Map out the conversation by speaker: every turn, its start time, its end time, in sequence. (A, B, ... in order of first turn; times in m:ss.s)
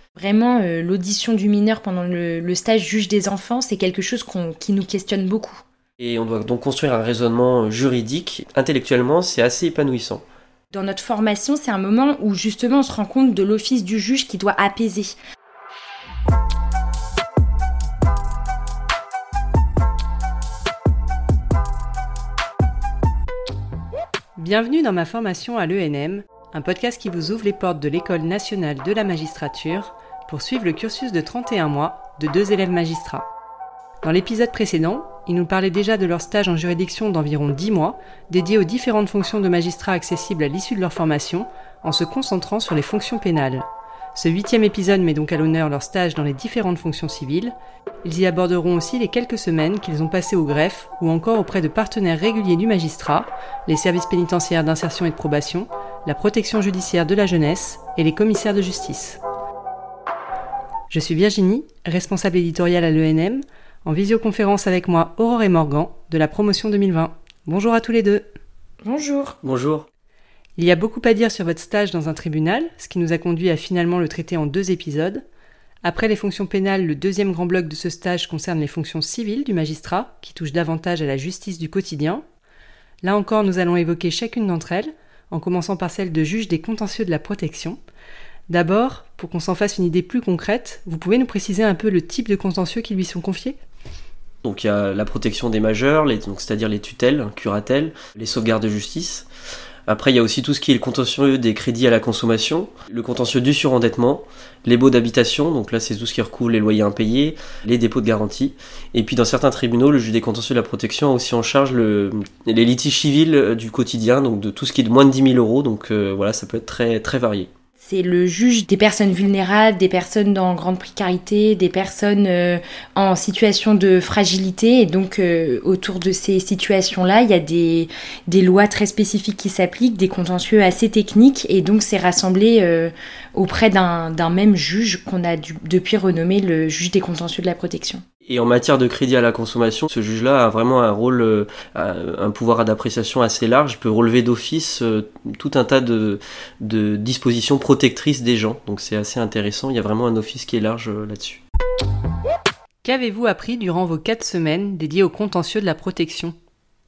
0:00.2-0:05.6 A
0:06.0-0:10.2 B
0:10.7-0:15.1 A
0:24.4-0:33.3 C
0:34.0-0:59.2 C
1:00.9-1:08.2 C
1:08.8-1:09.4 A
1:09.4-1:09.9 B
1:10.6-1:15.2 C
1:15.8-1:22.2 C
1:23.0-1:27.8 C
1:28.5-1:33.6 C
1:34.4-1:39.2 B
1:39.9-1:57.5 B
1:57.8-2:18.0 A
2:18.2-2:31.4 B
2:32.8-2:36.4 C